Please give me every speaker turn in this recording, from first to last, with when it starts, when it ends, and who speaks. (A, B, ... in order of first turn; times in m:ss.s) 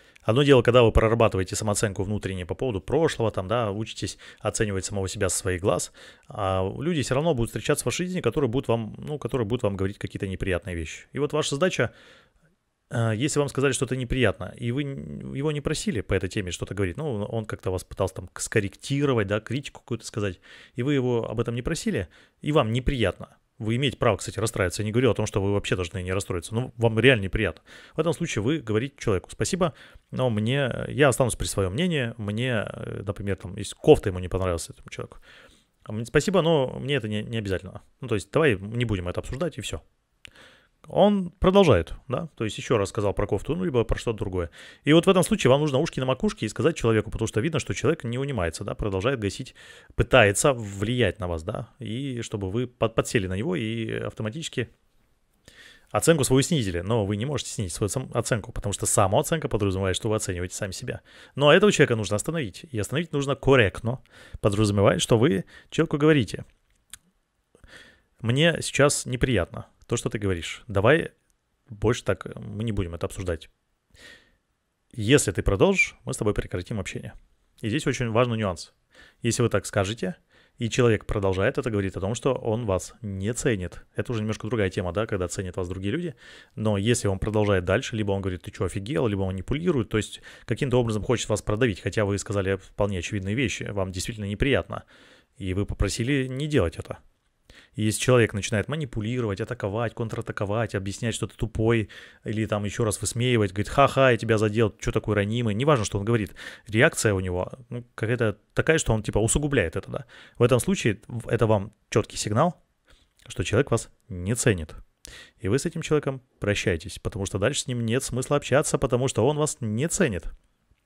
0:00.2-0:11.9 A
0:12.9-0:35.2 A
0:35.9-0:39.8 A
0:40.9-0:54.7 A
0:55.9-1:06.4 A
1:08.2-1:11.1 A
1:11.7-1:13.5 A
1:14.9-1:34.8 A
1:35.4-1:37.0 A
1:37.8-1:52.6 A
1:53.3-1:54.8 A
1:55.4-2:00.3 A